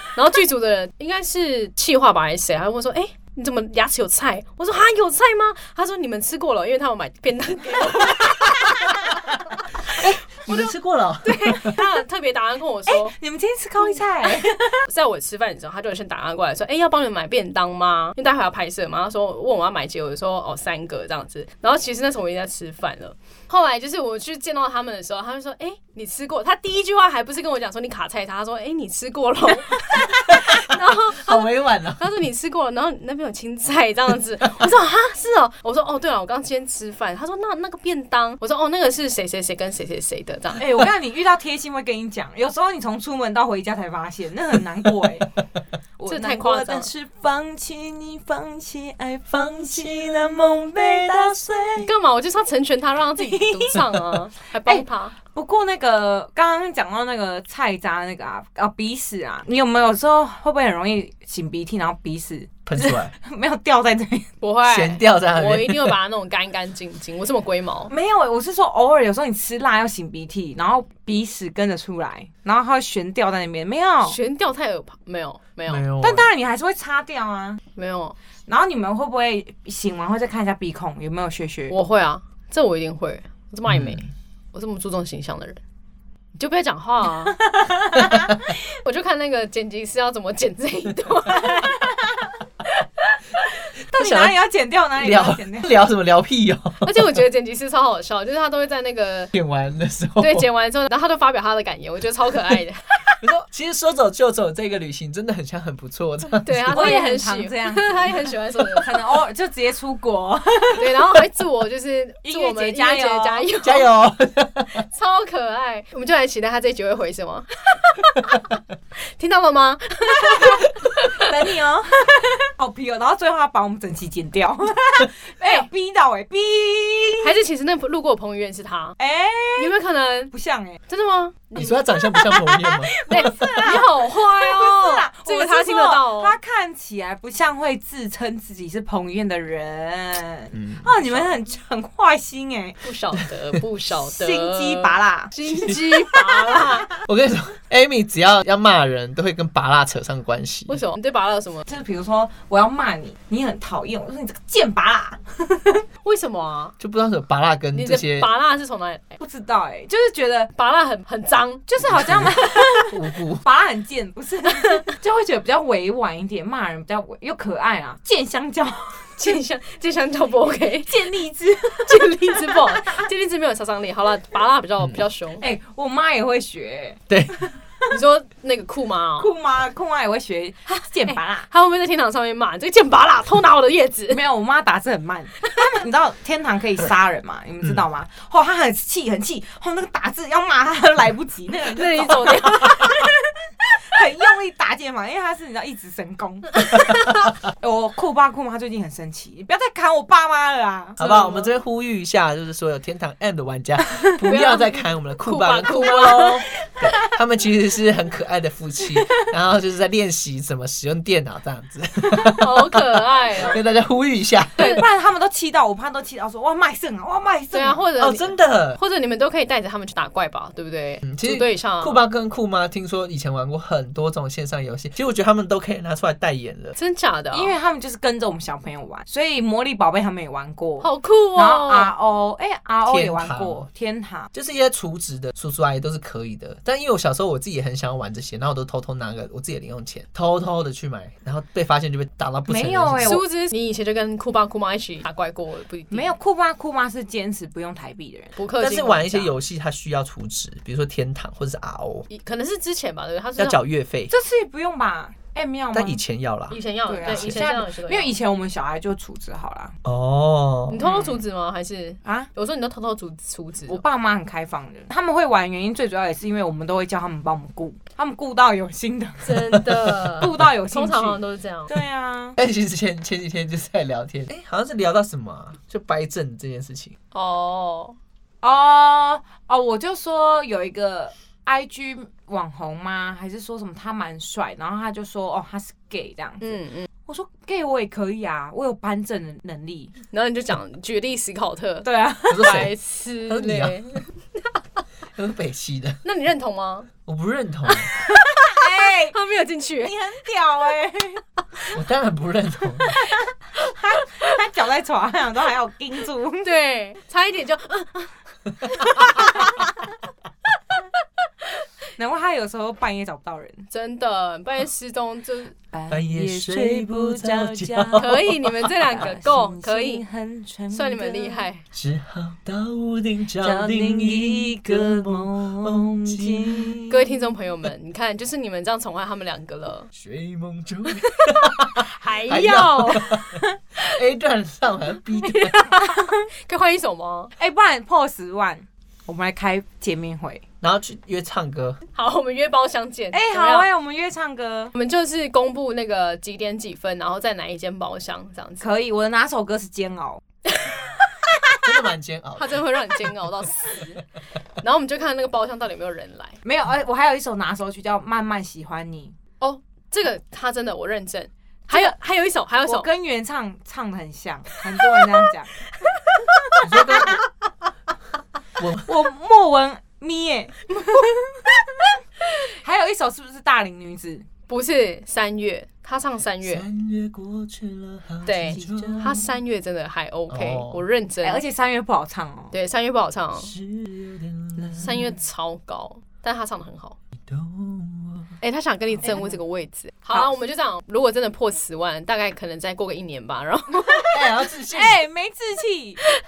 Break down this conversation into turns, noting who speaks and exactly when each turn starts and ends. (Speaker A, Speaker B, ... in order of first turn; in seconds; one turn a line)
Speaker A: 0.1-9.2
Speaker A: 9.9-13.2
Speaker B: 10.0-11.8
Speaker C: 12.9-14.8
Speaker A: 14.8-40.8
Speaker B: 30.3-32.1
Speaker C: 40.6-45.3
Speaker C: 46.0-51.9
Speaker A: 46.1-46.9
Speaker A: 51.8-55.2
Speaker C: 53.2-53.9
Speaker C: 54.6-64.3
Speaker B: 62.7-63.1
Speaker A: 64.4-67.9
Speaker B: 64.7-66.0
Speaker C: 67.9-74.2
Speaker A: 74.0-75.8
Speaker B: 75.7-76.3
Speaker C: 76.0-77.6
Speaker A: 77.8-78.2
Speaker C: 78.5-81.8
Speaker A: 81.7-85.6
Speaker B: 83.7-84.0
Speaker A: 86.4-87.4
Speaker C: 87.4-88.3
Speaker A: 88.8-91.9
Speaker C: 93.9-95.8
Speaker B: 93.9-94.4
Speaker B: 95.0-96.9
Speaker A: 96.8-99.3
Speaker B: 99.3-100.5
Speaker A: 100.2-103.2
Speaker B: 103.2-106.9
Speaker A: 106.4-109.0
Speaker C: 106.7-111.0
Speaker A: 110.8-113.9
Speaker C: 112.2-113.5
Speaker B: 113.6-114.8
Speaker A: 114.9-118.5
Speaker A: 119.2-121.2
Speaker C: 120.2-127.3
Speaker A: 127.2-129.0
Speaker C: 129.0-129.7
Speaker A: 129.6-130.3
Speaker C: 130.3-130.8
Speaker A: 130.9-131.8
Speaker B: 131.6-133.5
Speaker C: 132.2-142.8
Speaker A: 133.1-136.4
Speaker B: 140.5-141.3
Speaker A: 142.8-146.9
Speaker C: 144.1-145.3
Speaker B: 145.5-145.8
Speaker C: 146.1-146.8
Speaker B: 147.1-150.8
Speaker A: 150.7-151.7
Speaker C: 151.7-155.8
Speaker A: 156.0-156.8
Speaker B: 156.8-158.3
Speaker A: 157.7-159.2
Speaker C: 159.2-160.5
Speaker A: 160.6-162.3
Speaker C: 161.7-169.0
Speaker B: 161.8-162.4
Speaker B: 162.9-163.4
Speaker A: 169.2-171.2
Speaker C: 170.9-173.0
Speaker A: 171.8-175.4
Speaker C: 175.4-177.9
Speaker B: 177.1-177.4
Speaker A: 177.9-179.3
Speaker C: 179.2-181.5
Speaker A: 181.1-184.2
Speaker C: 184.1-192.9
Speaker A: 191.7-193.2
Speaker C: 193.8-196.8
Speaker C: 197.6-201.4
Speaker B: 201.0-214.8
Speaker A: 201.0-201.4
Speaker A: 204.2-206.5
Speaker A: 212.1-213.6
Speaker C: 214.6-217.8
Speaker A: 217.5-222.0
Speaker B: 218.0-218.8
Speaker B: 221.1-226.8
Speaker A: 226.8-227.5
Speaker C: 227.3-234.3
Speaker A: 230.8-231.9
Speaker B: 232.9-233.7
Speaker B: 234.3-243.2
Speaker C: 242.5-243.2
Speaker A: 243.0-246.1
Speaker C: 245.9-248.4
Speaker A: 248.4-249.3
Speaker B: 248.6-252.1
Speaker A: 252.1-253.6
Speaker B: 253.4-254.1
Speaker C: 254.1-256.0
Speaker B: 255.7-257.4
Speaker A: 256.5-258.1
Speaker C: 256.9-259.8
Speaker B: 259.8-260.8
Speaker A: 260.7-263.8
Speaker C: 260.8-261.2
Speaker C: 263.7-269.6
Speaker A: 269.2-271.7
Speaker B: 269.5-270.1
Speaker C: 270.1-272.4
Speaker B: 272.4-277.0
Speaker A: 277.1-278.0
Speaker C: 278.4-289.9
Speaker A: 286.4-286.9
Speaker A: 290.1-294.5
Speaker C: 291.8-292.6
Speaker B: 292.3-292.7
Speaker B: 293.3-294.0
Speaker B: 295.1-296.0
Speaker A: 296.0-296.9
Speaker B: 297.1-297.9
Speaker C: 298.0-299.2
Speaker A: 298.6-300.0
Speaker C: 299.8-301.2
Speaker B: 301.7-302.9
Speaker C: 303.6-306.5
Speaker A: 306.4-309.6
Speaker C: 312.0-313.7
Speaker A: 313.7-315.6
Speaker C: 315.7-321.5
Speaker B: 315.9-318.2
Speaker A: 318.0-320.0
Speaker A: 320.7-321.6
Speaker B: 321.7-326.8
Speaker C: 323.4-327.1
Speaker A: 326.9-329.9
Speaker B: 329.9-335.7
Speaker A: 330.9-333.3
Speaker A: 335.2-337.3
Speaker C: 335.8-336.1
Speaker C: 337.4-340.4
Speaker B: 340.6-341.8
Speaker A: 341.9-343.7
Speaker C: 343.1-344.7
Speaker A: 344.8-348.7
Speaker C: 348.6-350.2
Speaker A: 350.5-351.7
Speaker B: 351.6-352.6
Speaker A: 352.4-354.1
Speaker A: 354.6-356.4
Speaker C: 356.4-359.2
Speaker A: 359.4-362.9
Speaker C: 361.7-362.0
Speaker C: 362.6-365.5
Speaker B: 366.6-367.2
Speaker B: 368.6-368.9
Speaker C: 368.9-371.1
Speaker C: 372.5-374.3
Speaker A: 374.5-376.7
Speaker B: 376.4-379.2
Speaker A: 378.3-381.4
Speaker C: 378.5-379.3
Speaker B: 380.3-380.8
Speaker C: 381.2-382.5
Speaker A: 382.5-383.6
Speaker B: 383.4-385.1
Speaker A: 384.7-387.0
Speaker B: 387.3-388.4
Speaker A: 388.4-394.4
Speaker C: 389.0-389.4
Speaker B: 394.1-395.0
Speaker C: 394.7-396.0